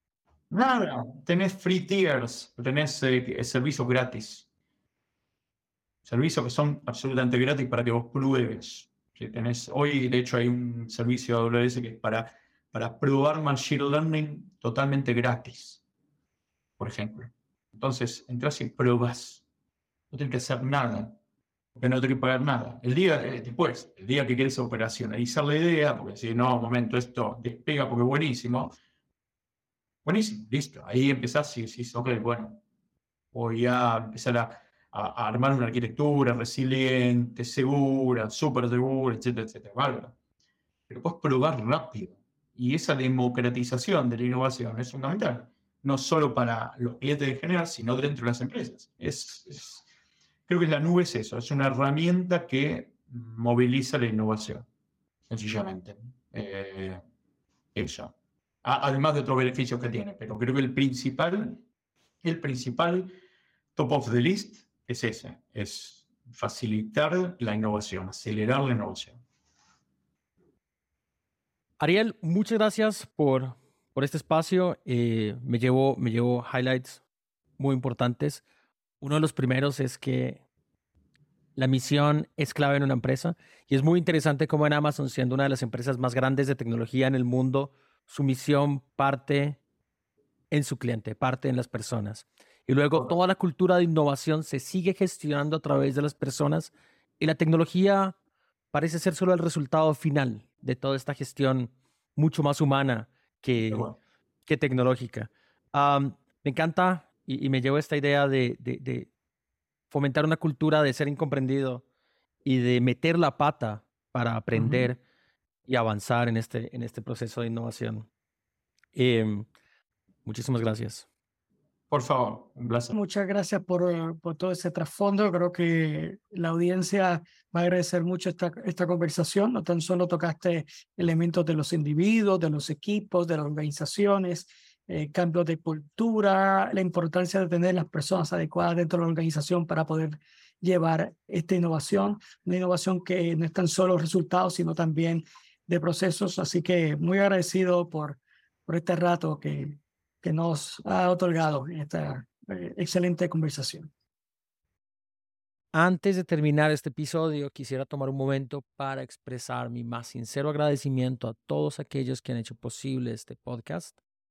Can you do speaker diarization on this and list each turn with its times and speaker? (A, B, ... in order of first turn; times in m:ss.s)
0:00.5-0:04.5 A
0:06.0-0:15.8 A
0:16.8-0:19.4 A
0:20.1-0:21.2 A
0:21.8-0:28.7 A
0:30.0-0:32.6 A
0:33.3-0:40.2 A
0:40.9-0:49.9 A
0:50.5-0:54.7 A
0:55.3-0:57.0 A
0:57.8-1:01.6 A
1:02.2-1:03.1 A
1:03.8-1:09.2 A
1:11.8-1:17.0 B
1:17.6-1:18.4 B
1:19.0-1:20.4 B
1:21.6-1:29.6 B
1:30.5-1:38.2 B
1:38.7-1:43.9 B
1:43.6-1:44.0 A
1:44.5-1:49.1 B
1:49.9-1:51.8 B
1:52.4-1:55.0 B
1:54.5-1:54.9 A
1:55.7-1:58.1 B
1:58.9-1:59.5 B
2:00.3-2:01.1 B
2:01.9-2:03.0 A
2:03.0-2:33.9 C
2:35.7-2:44.0 B